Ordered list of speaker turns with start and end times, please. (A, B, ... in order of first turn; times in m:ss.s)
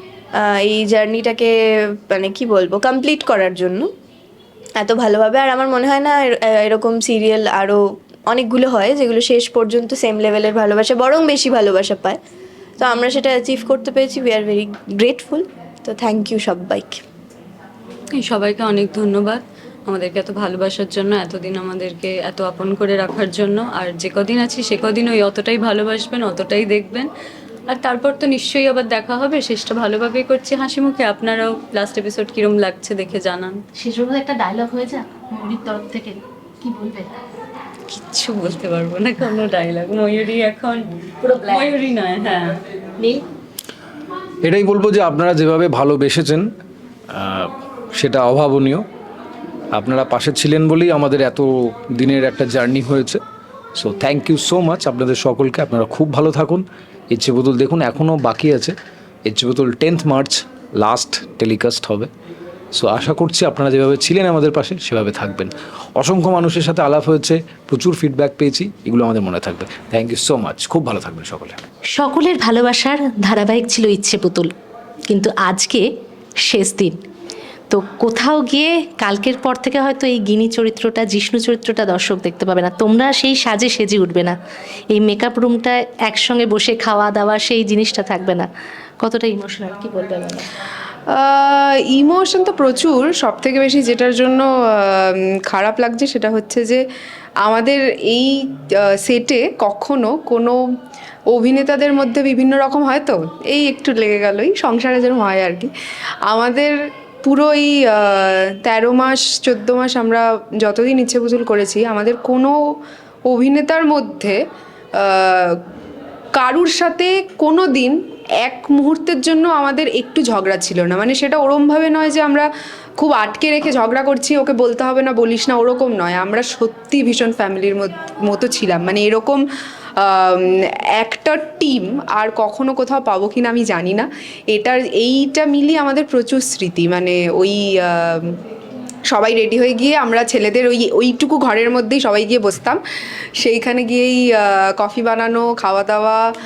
0:00.4-0:01.5 A
0:02.1-0:03.9 A
0:04.8-0:12.2 A
0:12.8-0:17.0 A
0:18.1-0:27.1 B
0:27.7-0:33.6 B
0:33.8-0:37.1 C
0:37.9-0:42.6 B
0:41.2-0:41.7 C
0:43.0-0:43.2 C
0:44.4-0:46.5 D
0:47.1-0:48.8 D
0:49.7-0:53.2 D
0:53.8-1:02.1 D
1:02.7-1:11.6 D
1:11.9-1:14.5 C
1:15.1-1:15.8 C
1:16.4-1:17.0 C
1:17.7-1:24.4 C
1:24.9-1:28.5 C
1:29.0-1:30.5 C
1:31.1-1:36.8 E
1:37.4-1:40.6 E
1:41.3-1:45.7 E
1:46.3-1:52.6 E
1:53.3-1:54.4 E
1:55.0-1:55.6 E
1:56.4-2:09.4 E
2:10.0-2:18.3 E
2:19.1-2:22.8 E
2:23.4-2:26.2 E